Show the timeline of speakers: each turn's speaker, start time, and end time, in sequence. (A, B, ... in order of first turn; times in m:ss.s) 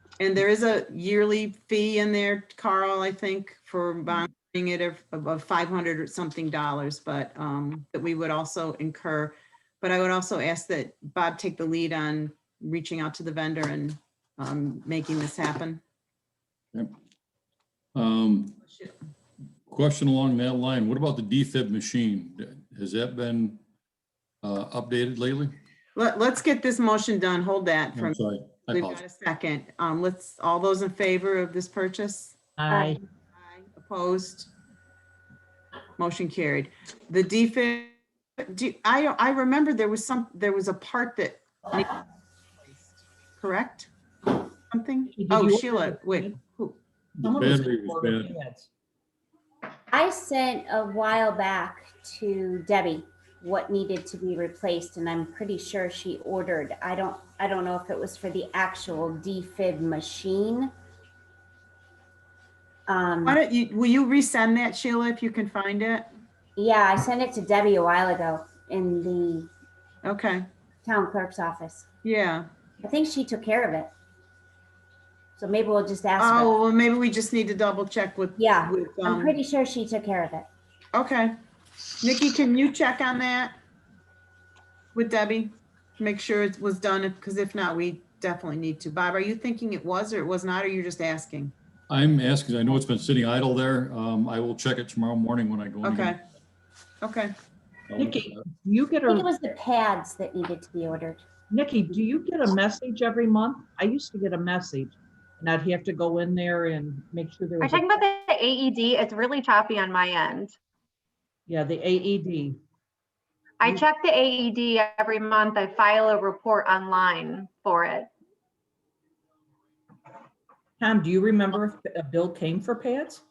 0:00.2-0:15.8 A
0:17.9-0:18.6 B
0:19.7-0:23.6 B
0:24.4-0:25.5 B
0:25.9-0:28.2 A
0:27.9-0:29.0 B
0:28.7-0:32.4 A
0:32.6-0:33.0 C
0:32.7-0:33.0 D
0:33.4-0:34.5 A
0:36.0-0:38.0 A
0:38.5-0:41.9 A
0:42.6-0:46.8 A
0:45.1-0:46.4 C
0:47.2-0:48.3 B
0:47.2-0:48.7 C
0:49.9-1:00.7 D
1:02.9-1:03.4 D
1:03.2-1:06.1 A
1:06.6-1:09.5 D
1:10.0-1:10.4 A
1:10.8-1:11.8 D
1:12.0-1:12.5 A
1:12.8-1:13.9 D
1:15.4-1:16.6 D
1:16.2-1:19.4 A
1:18.4-1:20.5 D
1:20.9-1:21.3 A
1:22.0-1:23.6 A
1:24.9-1:31.5 A
1:31.9-1:36.1 B
1:35.8-1:36.2 A
1:37.0-1:37.3 A
1:37.9-1:38.4 B
1:37.9-1:39.3 C
1:39.1-1:41.2 D
1:41.5-1:48.0 C
1:47.6-1:50.5 E
1:51.5-1:52.6 C
1:53.6-1:58.1 E
2:00.8-2:03.2 C